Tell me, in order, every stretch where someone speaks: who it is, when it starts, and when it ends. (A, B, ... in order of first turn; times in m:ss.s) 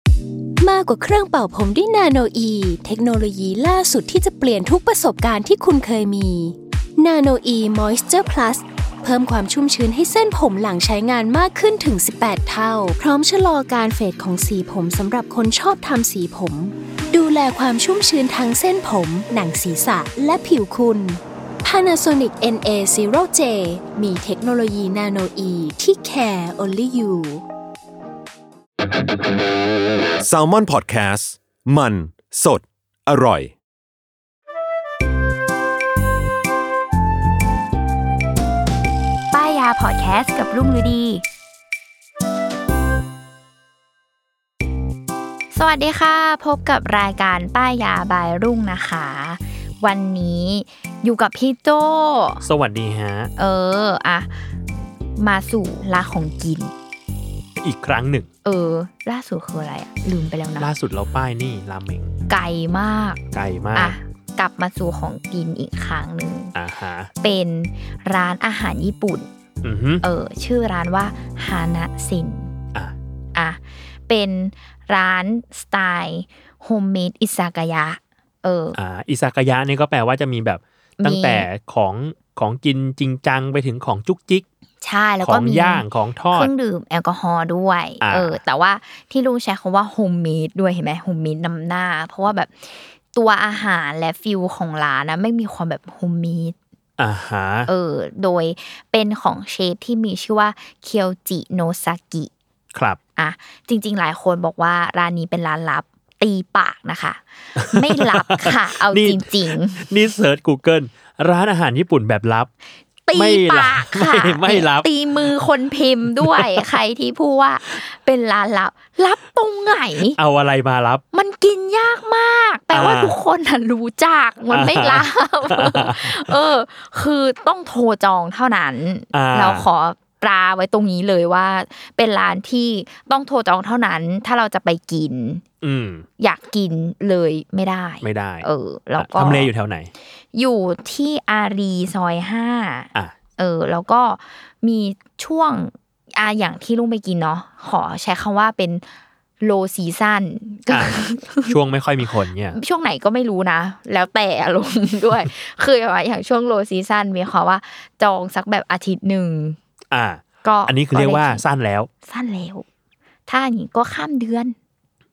0:00.6-0:27.4 A
0:30.2-0:33.6 B
0:39.3-0:41.2 C
0:45.5-0:52.4 C
0:52.4-0:53.3 D
0:53.4-0:54.4 C
0:55.2-0:56.7 C
0:57.6-0:58.3 D
0:58.4-1:00.7 C
1:00.6-1:02.1 D
1:02.3-1:03.2 C
1:03.3-1:04.0 D
1:03.7-1:06.5 C
1:06.5-1:07.1 D
1:07.2-1:09.3 C
1:09.6-1:10.0 D
1:10.0-1:12.5 C
1:13.3-1:18.8 C
1:18.7-1:24.4 D
1:21.0-1:21.5 C
1:24.8-1:36.5 C
1:25.2-1:26.5 D
1:28.0-1:28.4 D
1:37.0-1:37.7 D
1:37.7-1:42.3 C
1:42.7-1:43.0 D
1:43.2-1:49.9 C
1:47.6-1:52.5 D
1:53.0-2:00.2 C
1:53.1-1:54.9 D
1:56.2-1:56.6 D
2:00.0-2:01.0 D
2:01.1-2:15.4 C
2:02.7-2:03.2 D
2:04.5-2:06.3 D
2:09.1-2:09.7 D
2:15.6-2:16.0 D
2:16.2-2:19.5 C
2:18.0-2:18.4 D
2:19.0-2:19.9 D
2:20.3-2:28.8 C
2:29.4-2:31.5 C
2:30.7-2:32.6 D
2:32.5-2:39.6 C
2:39.9-2:41.9 D
2:40.4-2:41.4 C
2:42.0-2:42.6 C
2:43.2-2:44.6 C